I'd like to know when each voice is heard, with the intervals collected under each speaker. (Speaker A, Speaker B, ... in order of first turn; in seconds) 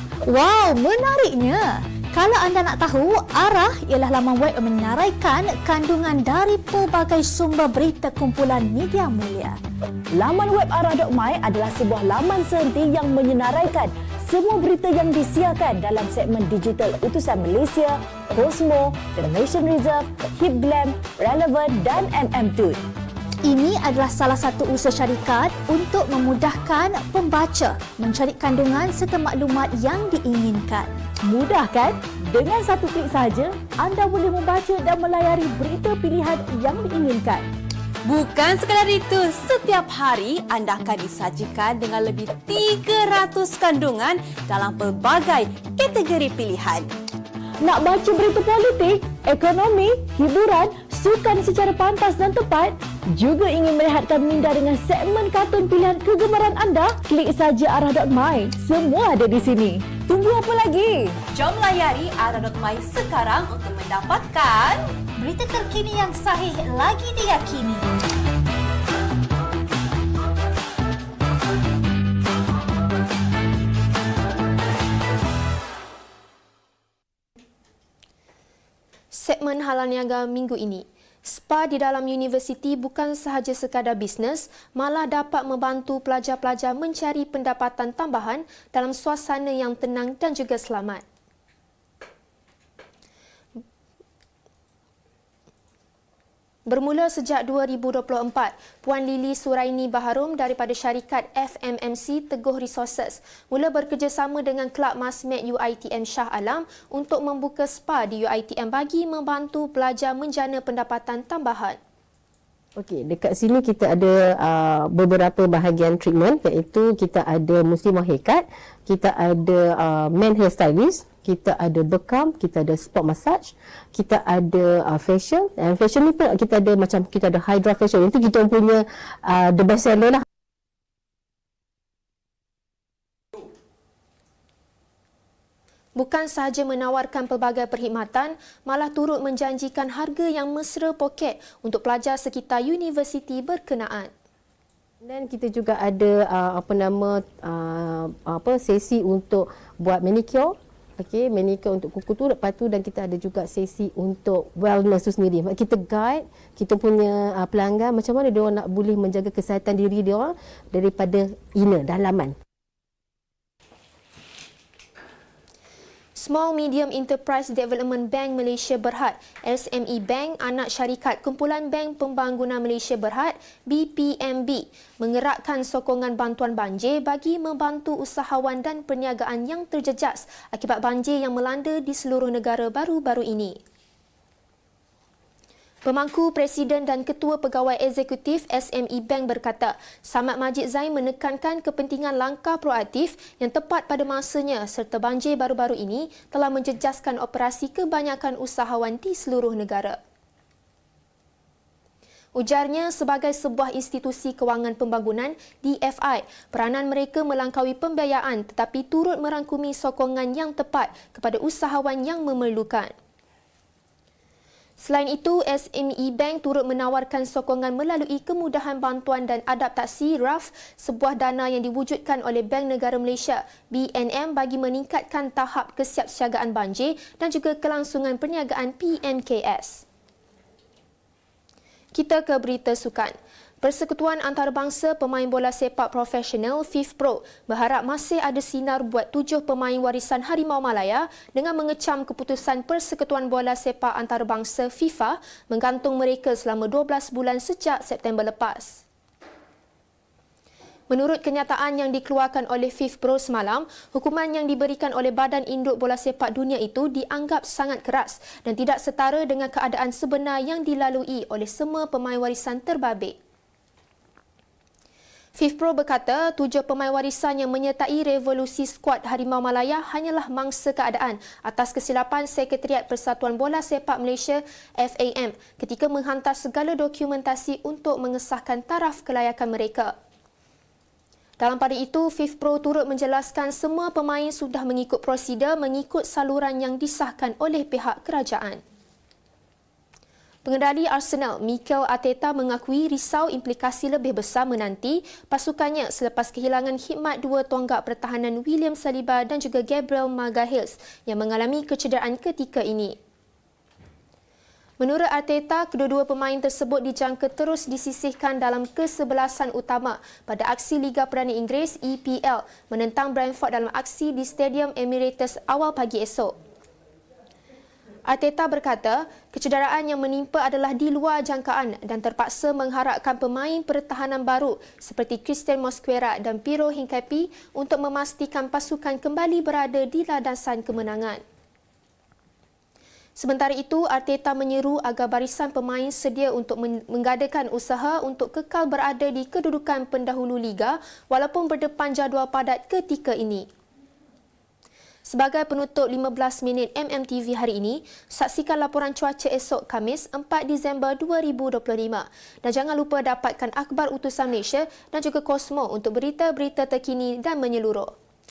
Speaker A: 0.2-9.6, 23.4-31.0, 65.1-67.9
Speaker B: 10.1-22.8, 31.2-37.5, 47.6-61.2
Speaker C: 38.0-46.9, 61.3-65.0
Speaker D: 79.1-91.0, 96.7-111.8, 135.9-144.1, 166.1-183.6, 185.8-200.0, 202.3-212.9, 214.8-229.8, 231.9-248.8, 250.9-263.2, 265.3-279.9, 281.4-288.6, 290.4-303.0, 304.8-316.3, 318.1-331.2, 333.1-343.5, 345.0-357.9
Speaker E: 112.8-130.2, 145.0-162.3